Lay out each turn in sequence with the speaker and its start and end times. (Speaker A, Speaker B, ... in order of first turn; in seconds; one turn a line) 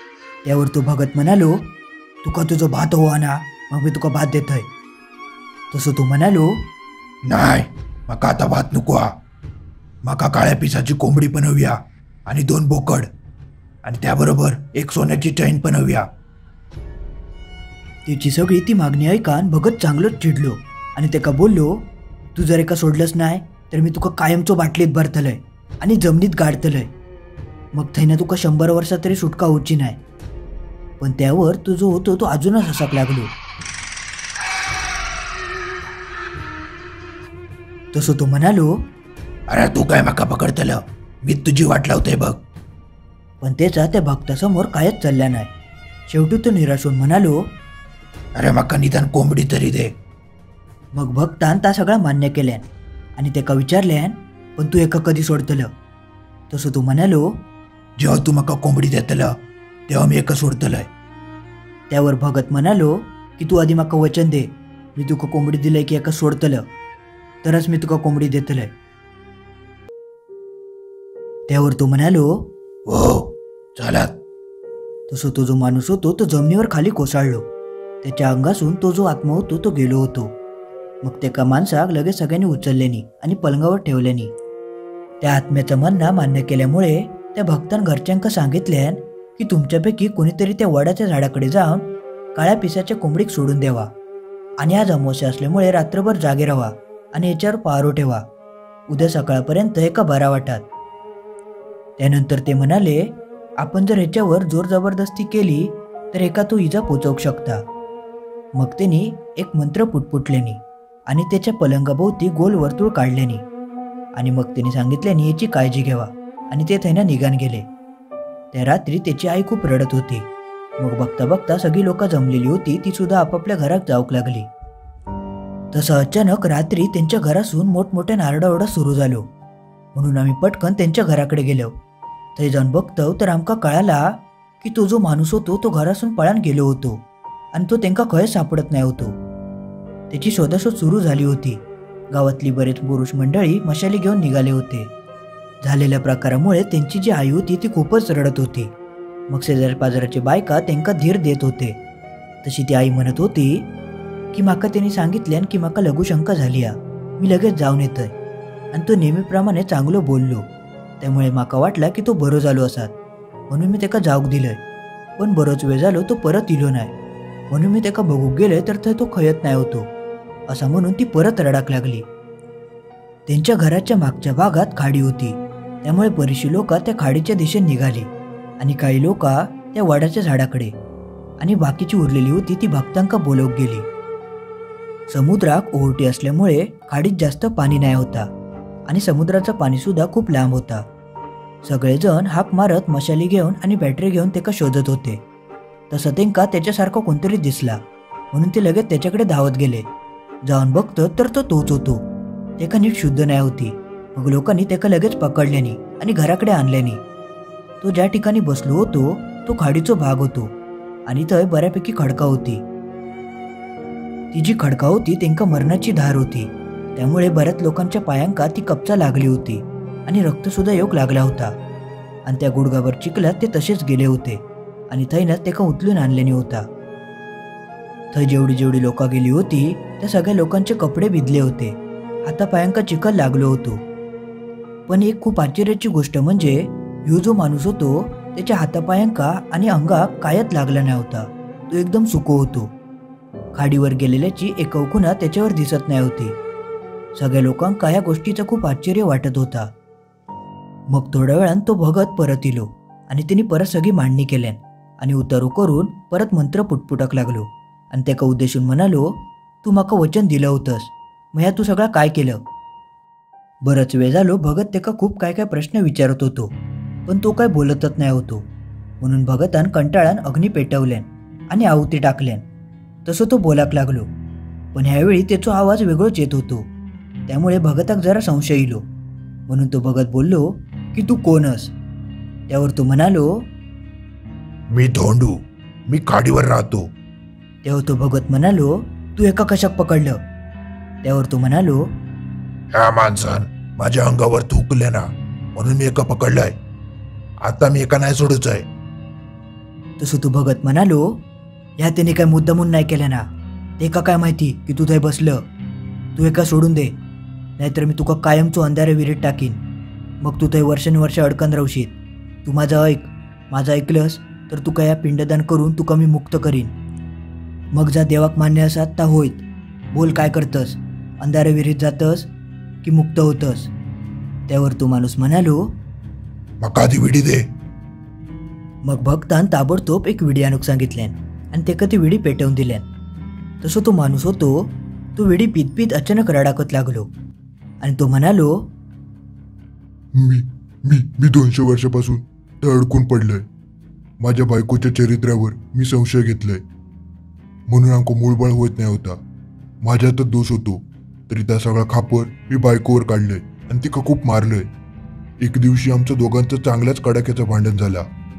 Speaker A: 0.4-1.7
Speaker A: 2.2-4.7
Speaker A: 5.7-6.5
Speaker B: 7.3-9.1
Speaker B: 10.0-13.1
Speaker B: 13.8-16.0
Speaker A: 18.1-26.9
Speaker A: 27.7-30.0
Speaker A: 31.0-33.3
Speaker A: 37.9-38.7
Speaker B: 39.5-42.4
Speaker A: 43.4-45.5
Speaker A: 46.1-47.4
Speaker B: 48.4-49.9
Speaker A: 50.9-55.7
Speaker A: 56.5-57.3
Speaker B: 58.0-59.3
Speaker B: 59.9-60.8
Speaker A: 61.9-66.6
Speaker A: 67.4-68.7
Speaker A: 71.5-72.5
Speaker B: 72.9-74.1
Speaker A: 75.1-77.4
Speaker A: 78.0-80.3
Speaker A: 81.0-84.3
Speaker A: 85.2-93.9
Speaker A: 94.6-98.2
Speaker A: 98.9-100.7
Speaker A: 102.0-107.6
Speaker A: 108.5-113.5
Speaker A: 114.1-117.7
Speaker A: 118.5-120.3
Speaker A: 120.8-124.5
Speaker A: 125.7-129.2
Speaker A: 129.9-131.7
Speaker A: 132.3-137.0
Speaker A: 137.5-139.2
Speaker A: 140.1-141.6
Speaker A: 142.1-144.9
Speaker A: 145.6-148.7
Speaker A: 149.3-151.8
Speaker A: 152.4-153.7
Speaker A: 154.3-158.1
Speaker A: 158.7-160.5
Speaker A: 161.0-162.9
Speaker A: 163.5-164.6
Speaker A: 165.2-166.9
Speaker A: 167.5-169.9
Speaker A: 170.5-172.1
Speaker A: 173.3-180.7
Speaker A: 181.4-183.9
Speaker A: 185.1-188.3
Speaker A: 188.9-190.8
Speaker A: 191.6-195.2
Speaker A: 195.9-197.8
Speaker A: 198.3-199.9
Speaker A: 200.4-202.0
Speaker A: 202.6-207.0
Speaker A: 207.8-210.5
Speaker A: 211.1-212.6
Speaker A: 214.3-221.5
Speaker A: 222.2-226.7
Speaker A: 228.1-233.8
Speaker A: 234.9-242.7
Speaker A: 243.5-246.3
Speaker A: 247.1-249.7
Speaker A: 250.9-262.4
Speaker A: 263.6-266.5
Speaker A: 267.1-268.4
Speaker A: 269.0-272.4
Speaker A: 273.0-274.1
Speaker A: 274.7-276.7
Speaker A: 277.3-278.8
Speaker A: 279.5-281.7
Speaker A: 282.5-283.3
Speaker B: 284.7-286.9
Speaker A: 287.6-290.2
Speaker A: 291.0-291.8
Speaker B: 292.7-296.6
Speaker B: 297.4-298.6
Speaker A: 300.0-301.2
Speaker A: 301.8-303.2
Speaker A: 303.8-305.4
Speaker A: 306.1-306.9
Speaker A: 307.6-309.6
Speaker A: 310.2-316.7
Speaker A: 317.7-322.3
Speaker A: 322.8-323.7
Speaker A: 324.5-325.6
Speaker B: 326.6-327.5
Speaker A: 328.8-332.9
Speaker A: 333.6-337.1
Speaker A: 337.8-338.7
Speaker C: 340.1-343.4
Speaker C: 344.2-346.6
Speaker C: 347.7-349.2
Speaker C: 349.8-354.7
Speaker C: 355.4-358.1